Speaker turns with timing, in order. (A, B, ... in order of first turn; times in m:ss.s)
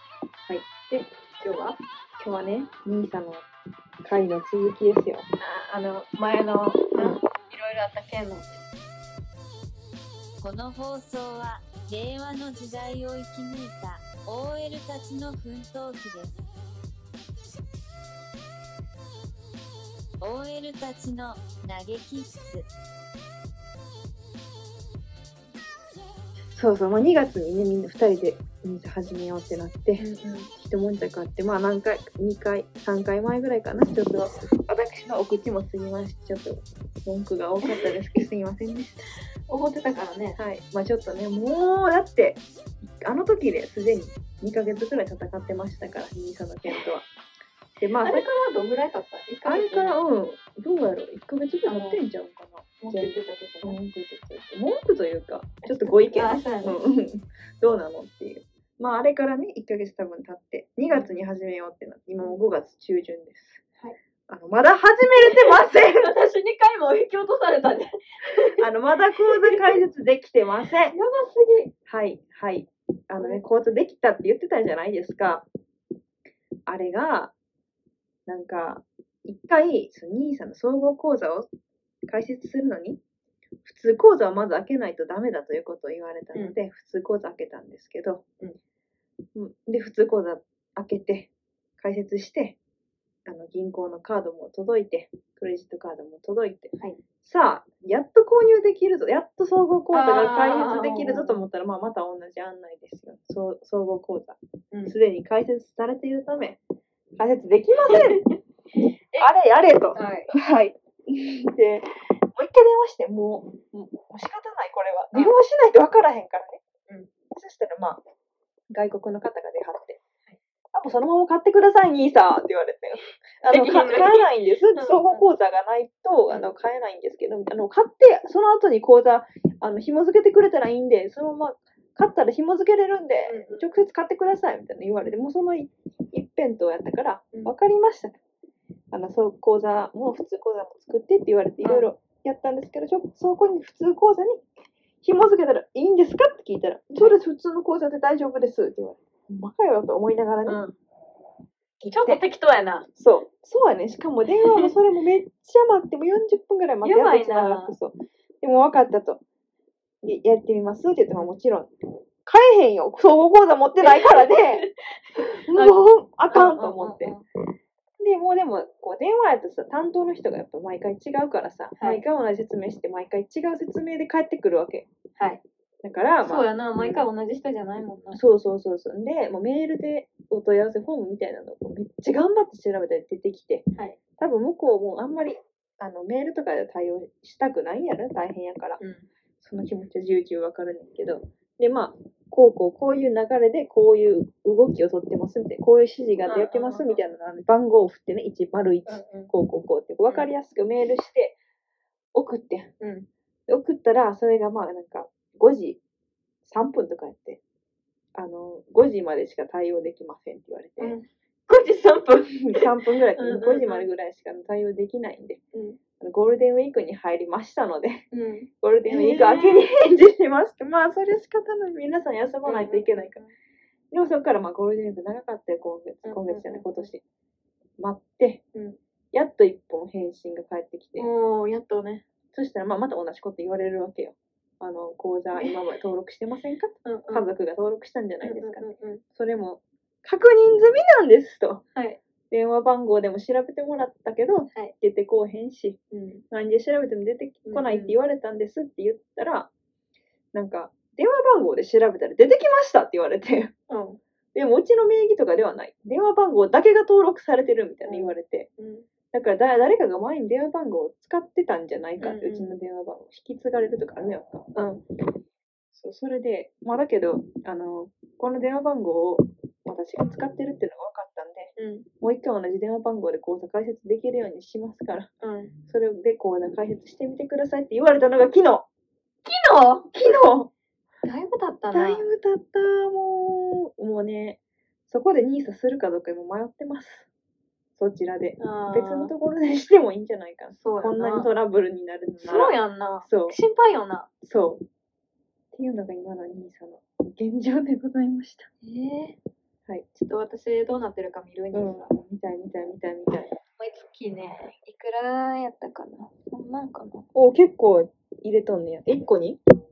0:00.5-0:01.0 A
0:01.4-0:01.8 B
0:02.2-0:03.5 A
0:04.0-0:05.2 A
0:05.4-0:08.5 B
0:06.9-0:07.2 A
0:10.4-0:16.4 C
0:20.2-0:22.7 C
0:26.5-0:39.0 A
0:30.0-0:30.5 B
0:39.5-0:40.4 B
0:40.4-0:42.4 A
0:43.0-0:47.1 A
0:47.8-0:48.2 A
0:48.0-0:50.0 B
0:49.4-1:03.6 A
0:51.6-0:52.0 B
0:52.8-0:53.8 B
0:55.6-0:56.8 B
1:04.3-1:06.1 A
1:05.2-1:08.5 B
1:08.6-1:11.0 A
1:09.3-1:09.8 B
1:10.9-1:11.7 B
1:11.9-1:15.5 A
1:16.7-1:17.3 A
1:18.3-1:21.5 A
1:22.1-1:23.0 A
1:23.6-1:28.2 A
1:29.3-1:32.6 A
1:33.3-1:46.6 A
1:39.9-1:41.4 B
1:47.2-1:48.2 A
1:47.9-1:48.3 B
1:49.2-1:56.6 A
1:49.9-1:50.3 B
1:57.3-1:58.0 A
1:58.7-2:00.0 A
2:00.7-2:18.2 A
2:03.5-2:05.3 B
2:13.2-2:13.7 B
2:18.9-2:24.4 A
2:21.6-2:21.9 B
2:25.0-2:30.6 A
2:30.4-2:30.8 B
2:31.8-2:32.2 A
2:31.9-2:32.9 B
2:32.9-2:39.2 A
2:36.8-2:37.8 B
2:40.0-2:41.7 A
2:42.2-2:44.6 A
2:44.6-2:45.8 B
2:45.4-2:47.1 A
2:46.3-2:47.2 B
2:48.0-2:54.9 A
2:51.8-2:52.0 B
2:55.8-2:57.1 A
2:56.2-2:58.2 B
2:58.1-3:03.6 A
3:04.2-3:08.8 A
3:08.8-3:09.1 B
3:09.4-3:21.4 A
3:16.3-3:17.0 B
3:18.9-3:19.3 B
3:22.1-3:22.7 A
3:22.8-3:23.1 B
3:23.5-3:25.8 A
3:26.4-3:27.4 A
3:28.1-3:31.0 A
3:30.8-3:33.9 B
3:32.4-3:35.4 A
3:35.5-3:35.8 B
3:36.0-3:38.0 A
3:38.1-3:39.6 B
3:38.6-3:43.2 A
3:42.4-3:43.3 B
3:43.9-3:47.0 A
3:46.0-3:46.9 B
3:47.8-3:48.4 A
3:49.1-3:51.1 A
3:51.0-3:52.0 B
3:52.3-4:01.6 A
3:55.3-3:55.6 B
3:56.8-3:57.3 B
3:58.2-3:59.0 B
4:02.3-4:05.8 A
4:05.9-4:06.2 B
4:06.3-4:09.5 A
4:07.4-4:08.0 B
4:10.3-4:13.5 A
4:13.7-4:14.0 B
4:14.3-4:18.5 A
4:17.9-4:18.9 B
4:19.1-4:24.5 A
4:22.0-4:22.6 B
4:24.6-4:24.8 B
4:25.7-4:35.1 A
4:31.6-4:31.8 B
4:35.2-4:35.5 B
4:35.6-4:38.6 A
4:39.2-4:39.9 B
4:39.9-4:40.5 A
4:41.0-4:42.1 B
4:41.7-4:47.1 A
4:47.8-4:53.4 A
4:48.4-4:49.1 B
4:50.6-4:51.3 B
4:52.2-4:54.1 B
4:54.2-4:54.6 A
4:55.5-4:58.5 A
4:58.6-4:59.2 B
4:59.9-5:01.9 B
5:01.5-5:03.3 A
5:03.5-5:07.1 B
5:07.1-5:09.4 A